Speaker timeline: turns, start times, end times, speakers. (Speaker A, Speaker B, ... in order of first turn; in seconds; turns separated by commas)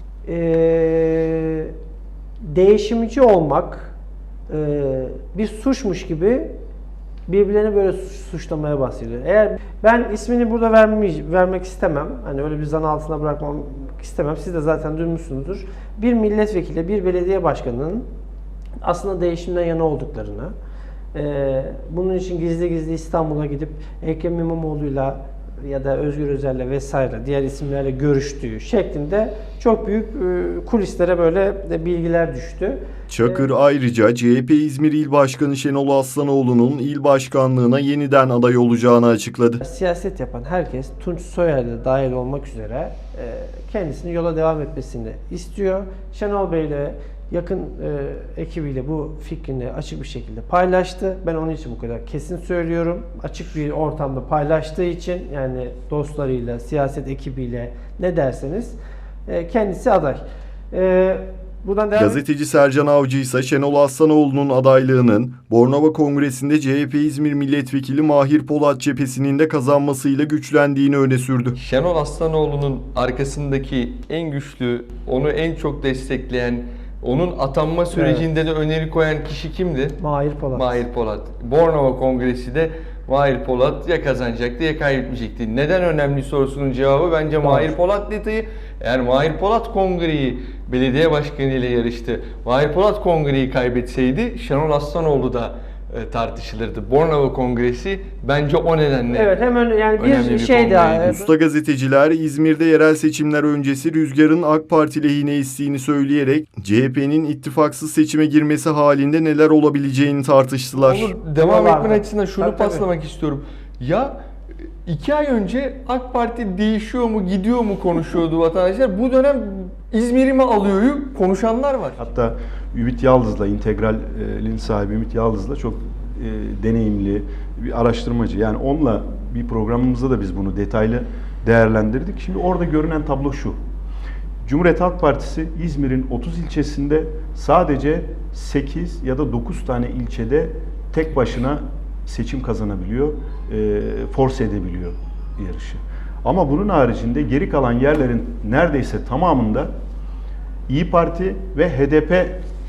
Speaker A: 0.3-1.7, Speaker A: 2.4-3.9, Speaker A: 4.5-6.5, Speaker A: 7.3-18.1, Speaker A: 18.8-20.5, Speaker A: 21.1-33.5, Speaker B: 33.1-39.6, Speaker A: 39.6-62.2, Speaker B: 62.0-71.6, Speaker C: 71.6-80.0, Speaker A: 77.9-78.3, Speaker A: 80.0-80.8, Speaker C: 80.5-99.4, Speaker A: 87.4-87.7, Speaker A: 99.1-101.3, Speaker C: 100.0-101.2, Speaker B: 101.0-111.1, Speaker C: 110.8-114.2, Speaker A: 111.3-112.9, Speaker C: 114.8-122.0, Speaker D: 122.0-133.6, Speaker D: 134.4-149.7, Speaker D: 150.7-152.4